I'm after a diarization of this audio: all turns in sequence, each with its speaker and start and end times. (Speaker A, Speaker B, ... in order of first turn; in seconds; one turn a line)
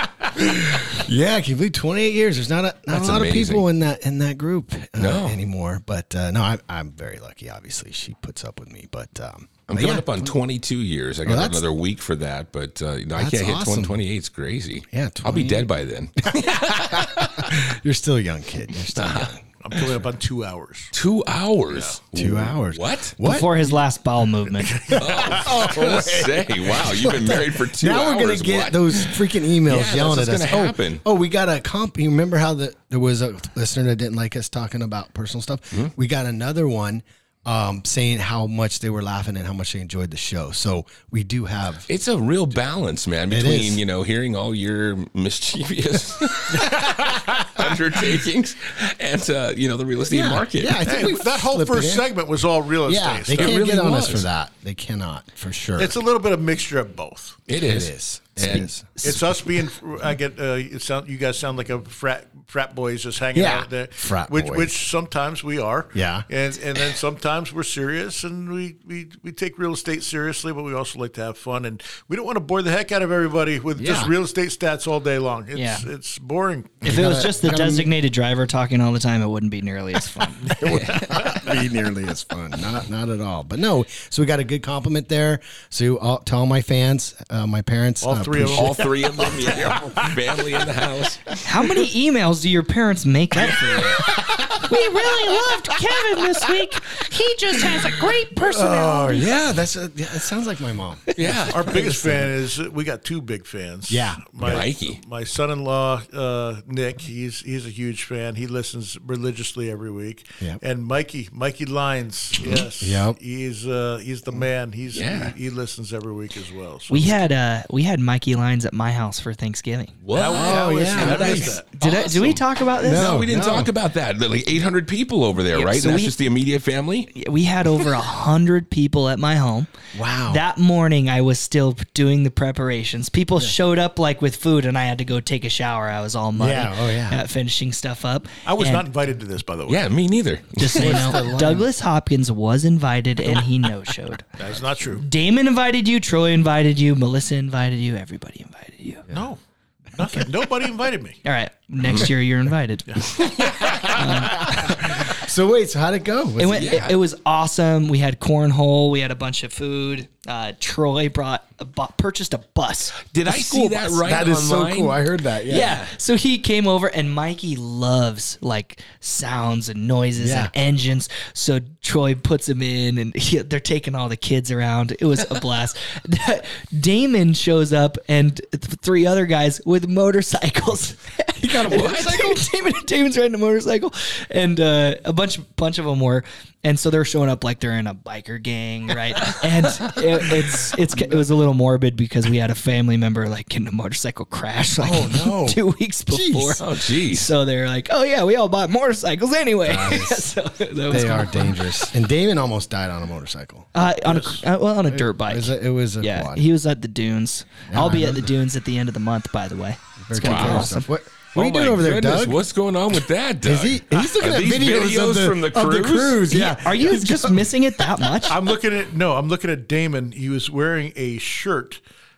Speaker A: 0.3-10.3
Speaker B: 2.9-3.6
Speaker B: 5.0-5.4
Speaker B: 9.7-17.6
Speaker A: 11.2-11.7
Speaker A: 13.2-14.0
Speaker A: 14.9-15.7
Speaker A: 16.2-19.4
Speaker B: 18.9-19.8
Speaker C: 19.6-20.9
Speaker B: 20.9-23.1
Speaker C: 21.7-22.0
Speaker A: 22.1-23.8
Speaker D: 23.2-24.8
Speaker C: 24.6-25.6
Speaker B: 24.9-31.0
Speaker A: 25.3-41.9
Speaker B: 41.9-50.8
Speaker A: 43.3-43.8
Speaker A: 50.1-52.1
Speaker C: 50.8-53.5
Speaker A: 52.9-55.9
Speaker B: 53.3-54.3
Speaker C: 55.8-57.4
Speaker B: 57.5-58.7
Speaker A: 57.6-59.2
Speaker C: 59.0-77.0
Speaker A: 63.3-64.8
Speaker A: 65.9-66.3
Speaker A: 73.8-74.1
Speaker D: 75.5-75.8
Speaker A: 76.8-77.9
Speaker D: 76.8-80.6
Speaker A: 80.6-88.9
Speaker B: 80.7-81.3
Speaker C: 88.0-89.7
Speaker B: 88.5-91.4
Speaker D: 91.4-99.4
Speaker A: 94.7-95.3
Speaker A: 98.4-102.3
Speaker B: 101.2-101.7
Speaker C: 101.5-117.1
Speaker A: 103.9-104.7
Speaker B: 104.4-105.0
Speaker A: 112.8-113.2
Speaker B: 114.9-115.3
Speaker D: 116.9-119.9
Speaker B: 120.0-127.1
Speaker C: 120.1-121.7
Speaker A: 120.2-121.6
Speaker D: 121.3-123.2
Speaker A: 122.8-123.7
Speaker D: 125.5-126.1
Speaker D: 127.1-129.7
Speaker A: 129.9-130.4
Speaker D: 130.3-138.9
Speaker A: 136.3-137.2
Speaker C: 138.4-139.9
Speaker B: 139.7-141.2
Speaker D: 140.6-144.3
Speaker A: 140.7-141.7
Speaker C: 144.4-145.1
Speaker D: 145.0-149.0
Speaker C: 149.1-149.4
Speaker C: 149.9-151.2
Speaker D: 151.2-153.3
Speaker C: 152.9-154.6
Speaker D: 153.9-154.7
Speaker A: 154.4-156.9
Speaker D: 156.4-164.0
Speaker B: 156.6-156.9
Speaker B: 163.1-165.0
Speaker A: 164.0-165.8
Speaker D: 165.5-201.8
Speaker A: 170.2-170.5
Speaker A: 181.4-182.5
Speaker B: 181.7-182.2
Speaker B: 189.2-189.9
Speaker A: 190.9-191.2
Speaker A: 194.8-196.6
Speaker B: 196.6-197.3
Speaker A: 199.6-200.3
Speaker A: 200.9-204.3
Speaker D: 203.7-210.9
Speaker A: 204.9-206.5
Speaker A: 207.7-208.3
Speaker A: 210.0-212.4
Speaker B: 210.2-210.7
Speaker B: 211.3-216.2
Speaker A: 213.4-217.6
Speaker D: 216.3-218.4
Speaker C: 218.3-221.8